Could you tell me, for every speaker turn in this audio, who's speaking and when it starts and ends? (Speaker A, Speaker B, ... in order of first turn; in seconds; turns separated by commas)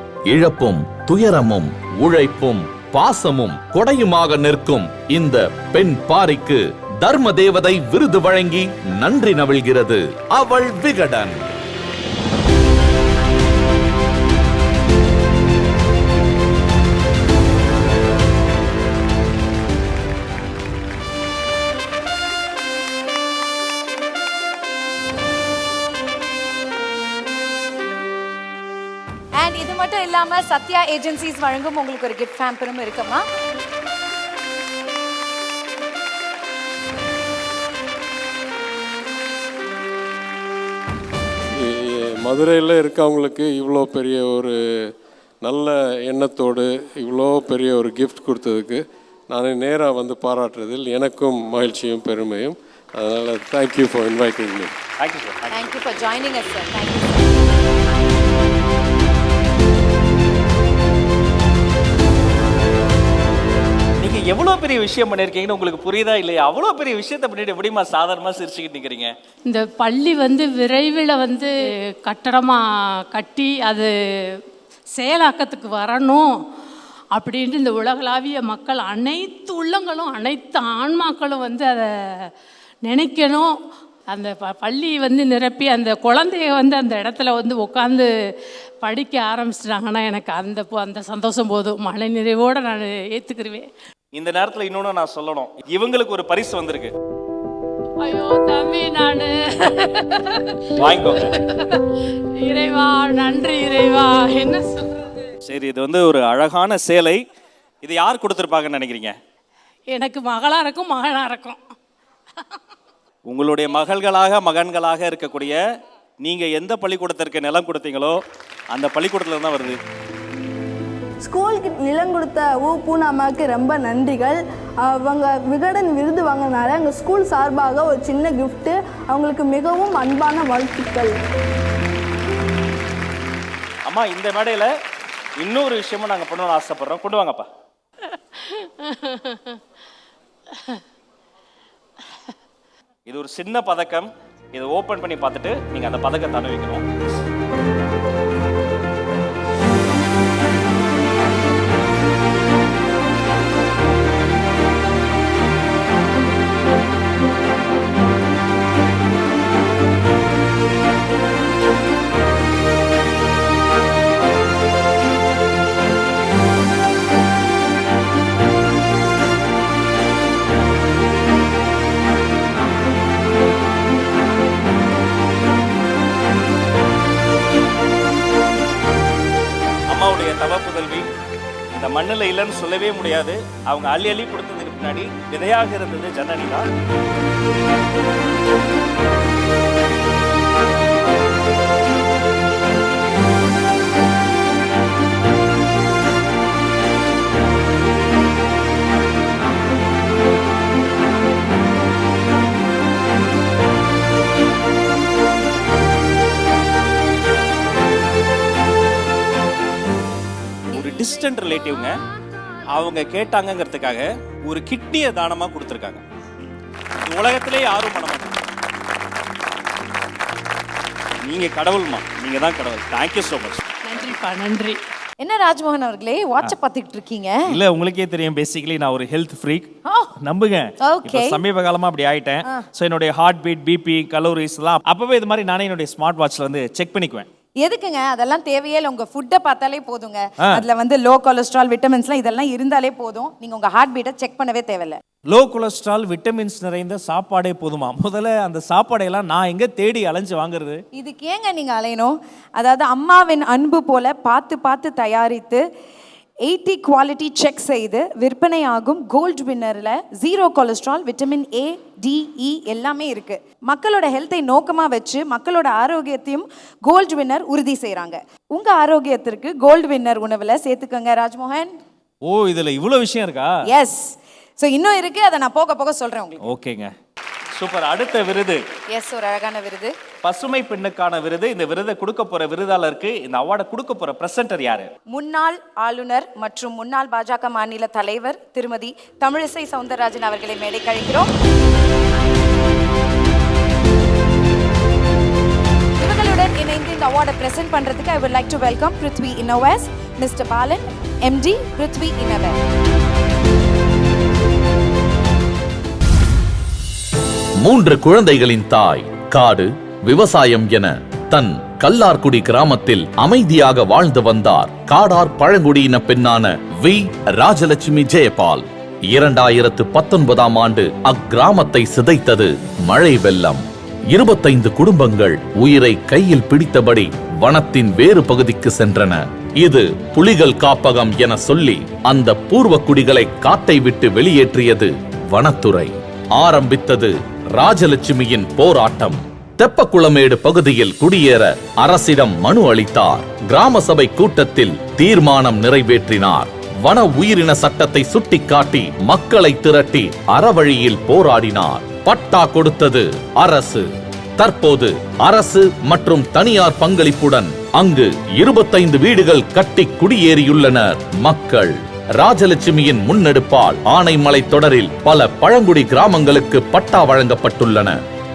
Speaker A: 0.3-11.4, Speaker B: 29.4-33.2, Speaker C: 41.6-44.9, Speaker C: 45.4-54.7, Speaker D: 55.0-55.5, Speaker B: 55.5-57.3, Speaker D: 64.0-69.1, Speaker E: 69.5-71.5, Speaker E: 72.0-74.4, Speaker E: 74.9-76.3, Speaker E: 77.1-82.3, Speaker E: 82.8-83.5, Speaker E: 84.1-88.1, Speaker E: 88.8-93.7, Speaker D: 94.1-96.9, Speaker E: 98.0-101.8, Speaker D: 100.8-101.3, Speaker E: 102.4-105.1, Speaker D: 105.4-107.2, Speaker D: 107.8-109.2, Speaker E: 109.9-111.6, Speaker D: 113.3-115.6, Speaker D: 116.2-118.2, Speaker D: 118.7-119.8, Speaker F: 121.2-131.2, Speaker D: 133.8-134.7, Speaker D: 135.4-137.5, Speaker E: 138.1-139.6, Speaker E: 140.5-140.8, Speaker D: 143.1-146.9, Speaker D: 179.9-181.1, Speaker D: 181.7-186.7, Speaker D: 210.7-211.9, Speaker D: 212.7-216.0, Speaker D: 217.1-218.4, Speaker D: 221.2-223.6, Speaker E: 223.8-224.8, Speaker B: 225.2-227.5, Speaker D: 227.5-237.3, Speaker B: 230.8-231.4, Speaker B: 237.6-245.0, Speaker D: 245.3-250.8, Speaker B: 250.9-255.6, Speaker B: 256.4-271.7, Speaker D: 272.3-273.5, Speaker B: 273.6-276.4, Speaker D: 276.4-276.9, Speaker D: 277.5-278.6, Speaker B: 278.9-279.9, Speaker D: 280.2-284.9, Speaker B: 285.1-291.3, Speaker B: 296.0-302.6, Speaker A: 307.6-368.0